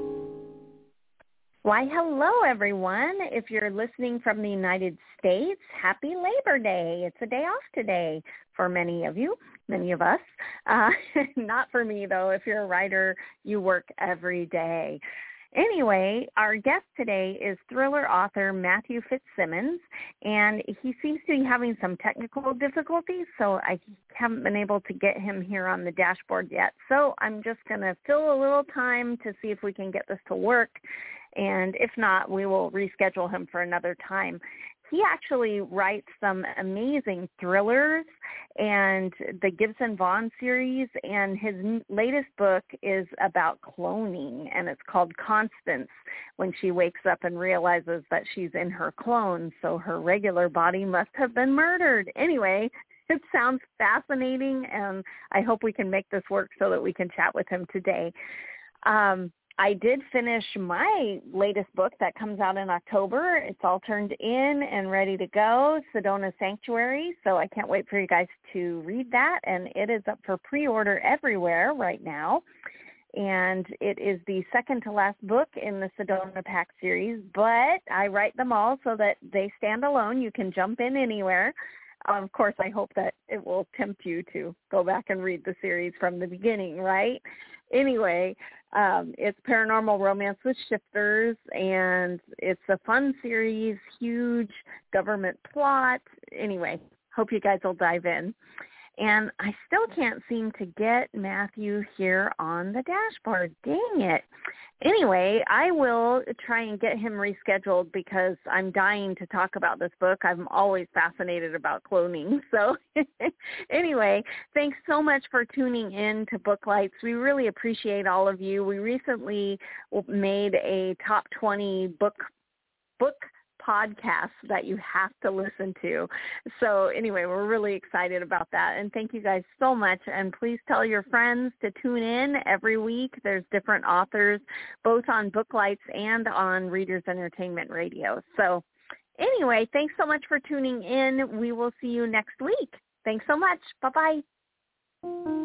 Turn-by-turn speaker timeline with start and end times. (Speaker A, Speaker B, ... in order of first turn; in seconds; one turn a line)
Speaker A: 1.6-15.0
Speaker A: 15.5-30.8
Speaker A: 31.3-38.1
Speaker A: 38.6-58.1
Speaker A: 58.9-72.4
Speaker A: 73.1-81.5
Speaker A: 82.1-98.4
Speaker A: 99.0-104.2
Speaker A: 104.8-122.2
Speaker A: 123.0-138.6
Speaker A: 139.2-144.2